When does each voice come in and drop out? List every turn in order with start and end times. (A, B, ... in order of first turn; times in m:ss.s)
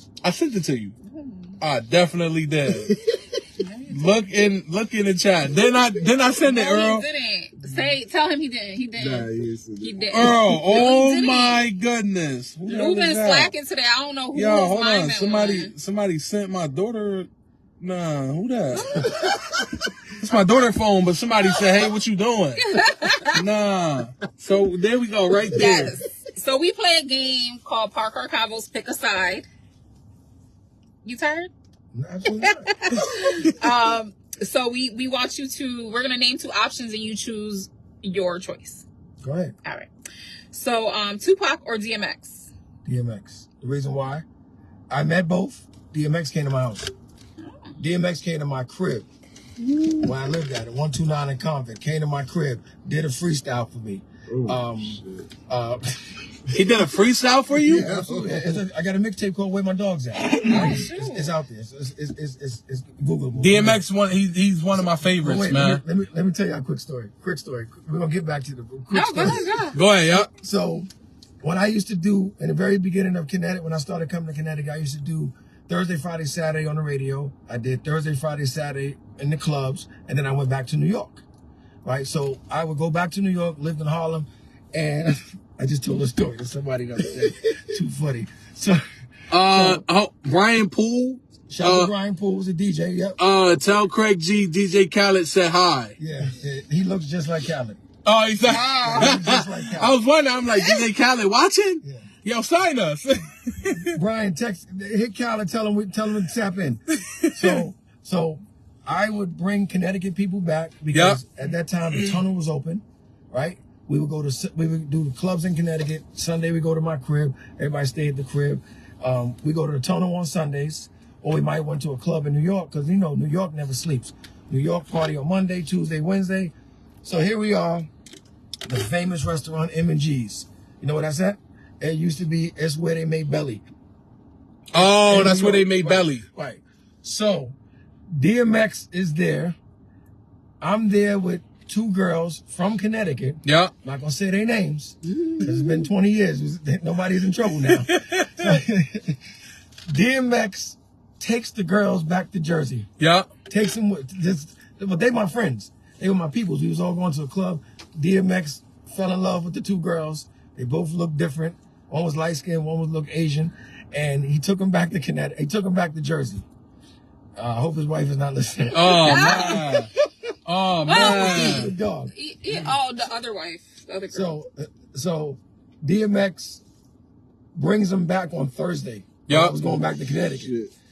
0:00.2-0:01.0 A
0:01.0-0:01.6 B
0:01.6-0:02.9 A
0:02.8-0:03.2 C
0:03.6-0:04.3 B
0:03.9-0:07.1 A
0:06.4-0:11.6 B
0:09.0-0:10.7 C
0:10.1-0:13.5 A
0:12.7-0:15.7 B
0:14.3-0:17.3 A
0:17.8-0:18.9 A
0:18.7-0:19.6 B
0:20.2-0:22.6 A
0:22.6-0:23.4 B
0:23.3-0:26.0 A
0:25.5-0:29.5 B
0:31.0-0:31.5 B
0:31.9-0:32.7 D
0:32.4-0:38.8 B
0:32.9-0:33.7 A
0:39.2-0:39.6 D
0:39.6-0:39.9 B
0:40.5-0:42.5 B
0:42.8-0:44.3 D
0:44.9-0:46.9 D
0:47.4-0:47.7 B
0:47.8-0:49.1 D
0:50.0-0:56.2 D
0:54.3-0:55.3 C
0:56.5-0:57.9 A
0:57.7-1:03.8 D
0:57.7-0:58.6 C
1:00.5-1:01.3 B
1:03.3-1:05.8 A
1:05.0-1:09.4 D
1:08.9-1:09.8 B
1:09.7-1:10.3 A
1:10.1-1:10.9 D
1:11.4-1:21.2 D
1:21.8-1:28.8 D
1:29.3-1:31.9 A
1:29.3-1:29.8 D
1:31.5-1:33.2 D
1:33.2-1:36.0 A
1:36.0-1:37.8 D
1:38.0-1:44.0 A
1:38.4-1:39.9 D
1:38.7-1:39.1 B
1:41.8-1:42.1 D
1:43.9-2:06.5 D
1:46.9-1:47.6 A
1:50.9-1:51.2 A
1:51.9-1:52.2 A
2:07.0-2:07.9 D
2:08.7-2:13.6 D
2:14.7-2:16.2 A
2:14.7-2:17.6 D
2:18.1-2:19.6 D
2:20.6-2:29.2 D
2:23.4-2:23.7 A
2:25.2-2:25.9 C
2:27.5-2:28.6 A
2:29.9-2:32.9 D
2:33.0-2:33.3 A
2:33.5-2:46.4 D
2:47.4-2:49.9 D
2:48.7-2:49.9 A
2:49.0-2:49.6 B
2:50.4-2:51.7 A
2:50.9-2:54.4 B
2:50.9-2:52.7 D
2:54.1-2:56.6 D
2:57.6-3:00.5 D
2:59.3-2:59.6 A
3:00.4-3:00.7 C